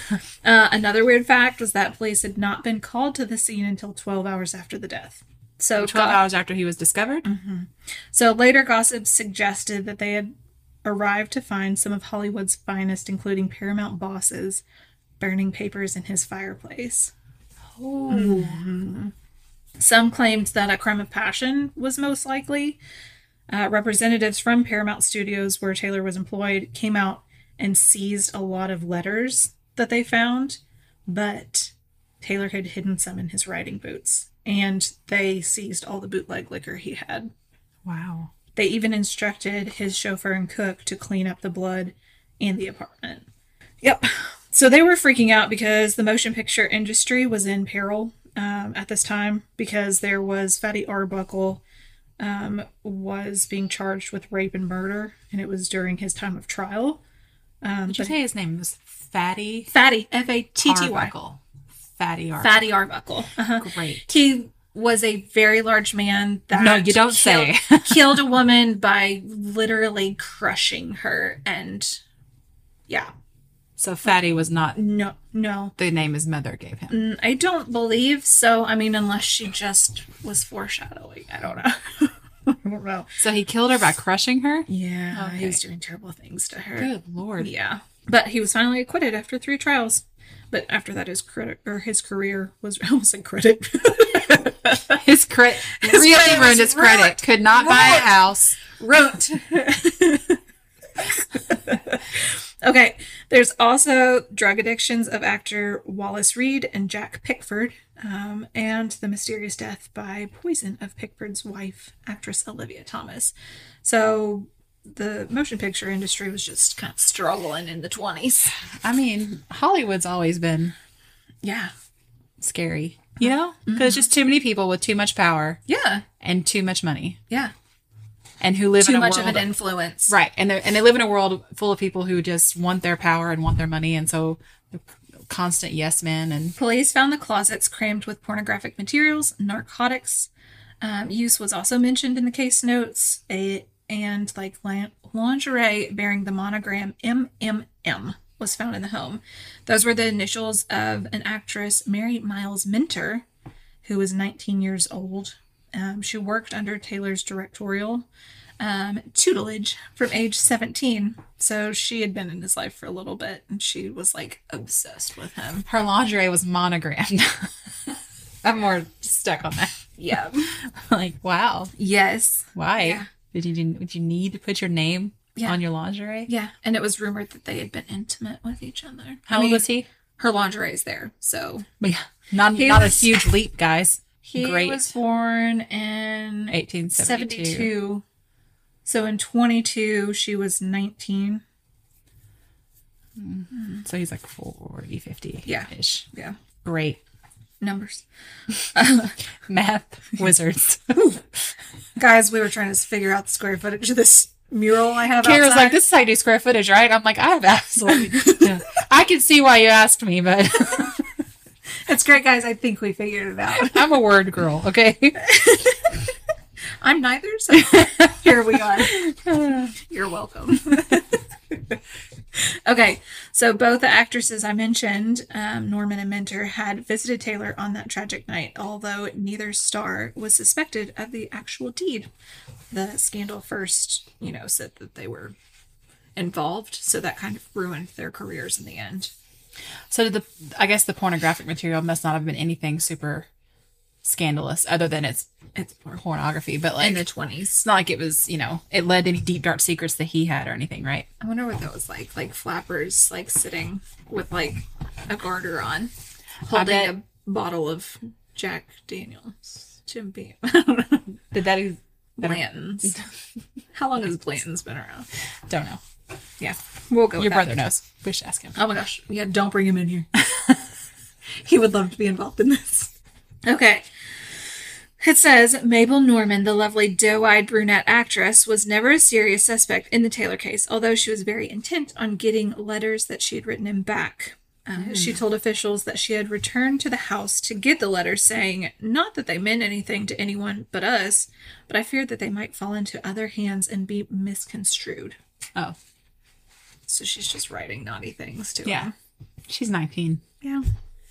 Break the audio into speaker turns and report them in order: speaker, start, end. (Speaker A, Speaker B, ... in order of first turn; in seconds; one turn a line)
Speaker A: 0.4-6.2
Speaker B: 5.8-7.2
Speaker A: 7.2-10.3
Speaker A: 10.8-14.6
Speaker A: 15.2-17.1
Speaker B: 17.8-18.6
Speaker A: 18.1-19.1
Speaker A: 19.8-22.8
Speaker A: 23.5-37.3
Speaker B: 37.8-38.3
Speaker A: 38.5-43.2
Speaker A: 43.8-51.6
Speaker A: 52.2-57.0
Speaker A: 57.6-58.1
Speaker B: 57.9-59.7
Speaker A: 59.7-61.1
Speaker B: 60.6-61.4
Speaker B: 62.0-62.7
Speaker A: 62.4-72.0
Speaker B: 63.6-64.0
Speaker B: 66.5-68.2
Speaker B: 73.8-74.8
Speaker A: 74.7-75.7
Speaker B: 75.8-77.0
Speaker A: 76.9-83.1
Speaker B: 83.2-85.6
Speaker A: 84.7-95.0
Speaker B: 86.8-87.5
Speaker B: 94.9-98.8
Speaker A: 95.8-100.4
Speaker A: 101.0-118.5
Speaker B: 118.6-120.7
Speaker A: 121.4-121.7
Speaker B: 122.4-125.6
Speaker A: 123.2-124.1
Speaker A: 125.7-126.0
Speaker B: 126.2-127.2
Speaker B: 128.4-129.5
Speaker A: 128.8-130.1
Speaker B: 130.1-136.6
Speaker A: 136.6-140.3
Speaker A: 140.8-153.2
Speaker A: 153.8-158.1
Speaker A: 158.6-165.7
Speaker B: 165.7-167.5
Speaker B: 168.4-169.8
Speaker A: 169.9-170.5
Speaker B: 170.7-171.7
Speaker A: 171.8-173.1
Speaker B: 172.5-176.3
Speaker A: 176.3-179.6
Speaker B: 179.3-179.9
Speaker A: 180.2-181.7
Speaker B: 181.8-184.9
Speaker A: 182.5-183.1
Speaker A: 184.2-188.0
Speaker B: 186.5-187.7
Speaker A: 188.8-191.4
Speaker B: 193.2-196.1
Speaker A: 193.5-193.8
Speaker A: 195.4-196.4
Speaker B: 196.6-197.0
Speaker A: 197.6-198.0
Speaker A: 198.7-199.2
Speaker B: 199.4-201.2
Speaker A: 202.0-205.8
Speaker B: 205.2-211.1
Speaker A: 208.1-208.5
Speaker A: 211.8-214.0
Speaker B: 213.6-215.2
Speaker A: 215.2-216.1
Speaker A: 216.8-219.0
Speaker B: 217.6-219.7
Speaker A: 219.8-221.7
Speaker A: 222.4-232.1
Speaker A: 232.7-235.3
Speaker A: 236.2-239.1
Speaker B: 239.9-243.3
Speaker B: 244.0-247.0
Speaker A: 245.6-246.0
Speaker A: 246.8-247.6
Speaker B: 247.6-251.1
Speaker A: 251.2-255.9
Speaker A: 256.5-261.2
Speaker B: 256.5-256.9
Speaker B: 261.3-263.0
Speaker A: 262.2-262.9
Speaker A: 263.7-265.1
Speaker B: 265.5-265.8
Speaker A: 266.4-267.6
Speaker B: 267.2-268.6
Speaker A: 268.5-270.1
Speaker A: 271.4-272.9
Speaker A: 273.4-273.9
Speaker A: 275.0-295.2
Speaker B: 284.8-285.2
Speaker A: 296.9-298.9
Speaker B: 299.5-300.2